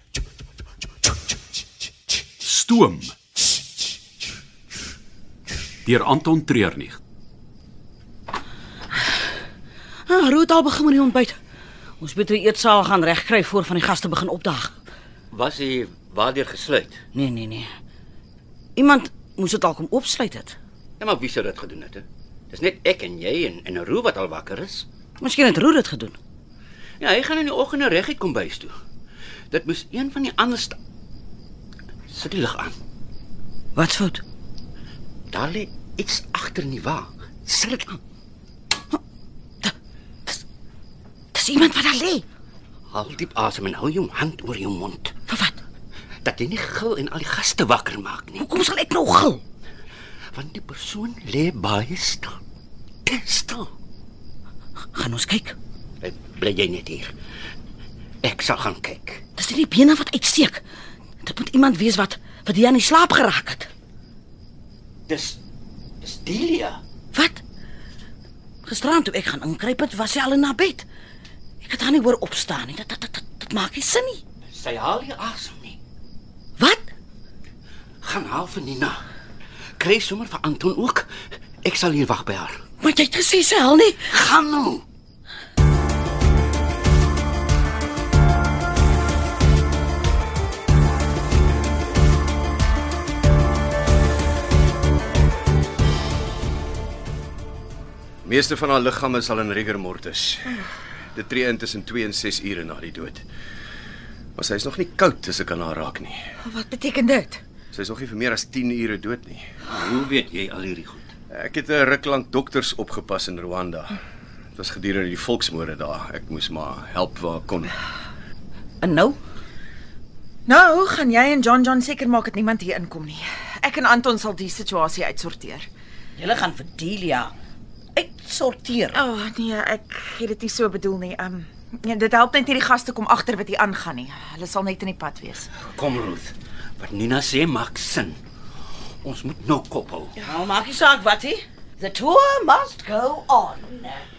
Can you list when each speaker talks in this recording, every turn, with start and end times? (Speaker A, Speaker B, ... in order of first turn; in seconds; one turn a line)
Speaker A: 2.4-3.1
Speaker A: 5.8-7.0
Speaker B: 10.1-11.3
Speaker B: 12.0-14.8
Speaker C: 15.3-17.0
Speaker B: 17.1-17.7
Speaker B: 18.8-20.6
Speaker C: 21.0-24.8
Speaker B: 25.2-26.2
Speaker C: 27.0-28.7
Speaker C: 29.5-30.8
Speaker C: 32.1-32.7
Speaker B: 33.7-34.2
Speaker C: 35.3-38.0
Speaker B: 41.3-42.2
Speaker C: 42.9-45.1
Speaker B: 45.3-45.6
Speaker C: 46.2-48.4
Speaker B: 48.4-49.4
Speaker C: 50.3-52.4
Speaker C: 53.0-53.7
Speaker B: 54.9-55.5
Speaker C: 56.0-57.1
Speaker C: 58.2-59.2
Speaker B: 59.4-60.6
Speaker B: 61.2-63.7
Speaker C: 65.1-65.4
Speaker C: 66.0-66.8
Speaker B: 67.1-67.4
Speaker B: 68.6-70.8
Speaker B: 71.6-74.2
Speaker C: 74.5-75.8
Speaker B: 76.6-76.9
Speaker C: 78.0-79.0
Speaker C: 79.8-81.1
Speaker C: 81.6-82.6
Speaker B: 82.8-84.2
Speaker C: 84.1-84.8
Speaker D: 98.2-100.6
Speaker D: 101.1-103.2
Speaker D: 104.3-106.2
Speaker E: 106.4-107.4
Speaker D: 107.7-109.4
Speaker C: 109.7-111.1
Speaker D: 111.3-114.0
Speaker D: 114.5-117.7
Speaker B: 118.8-119.2
Speaker E: 120.5-125.6
Speaker B: 126.2-127.3
Speaker B: 127.9-129.0
Speaker E: 128.9-135.5
Speaker C: 135.7-138.2
Speaker C: 139.0-140.2
Speaker B: 140.2-144.1